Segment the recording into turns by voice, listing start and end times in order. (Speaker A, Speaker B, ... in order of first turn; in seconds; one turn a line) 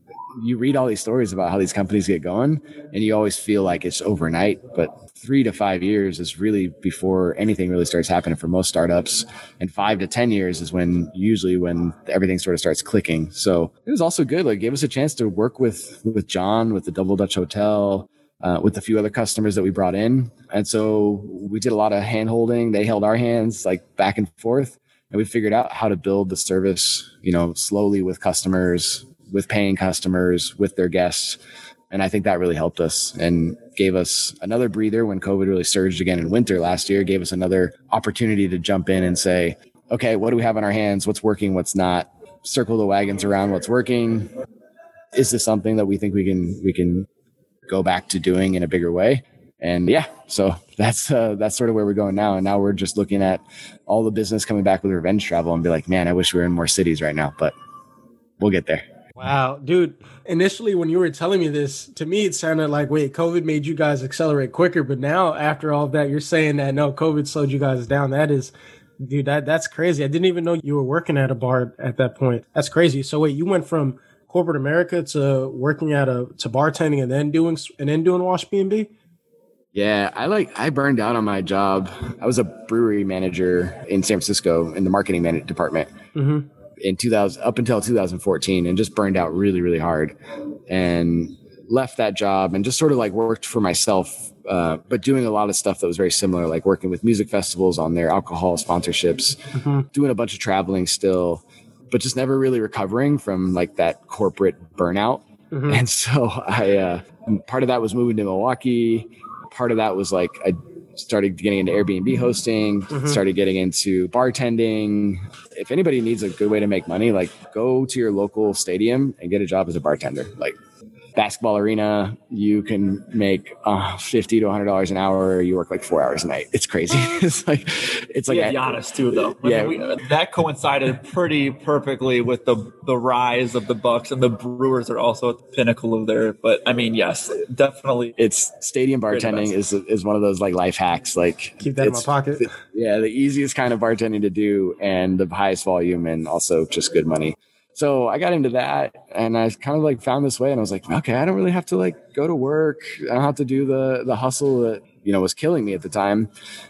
Speaker A: 0.4-31.4
Speaker A: 31.9-44.3
Speaker A: 45.1-47.1
Speaker A: 47.7-57.5
Speaker A: 58.4-58.9
Speaker B: 59.2-78.9
Speaker A: 79.7-85.9
Speaker B: 86.2-86.5
Speaker A: 86.8-90.2
Speaker A: 90.7-99.4
Speaker B: 99.5-99.9
Speaker A: 99.9-120.6
Speaker B: 105.5-105.8
Speaker B: 112.9-113.2
Speaker A: 121.2-128.6
Speaker C: 128.3-138.2
Speaker A: 129.4-129.8
Speaker A: 138.2-156.3
Speaker C: 139.1-139.5
Speaker B: 141.6-142.5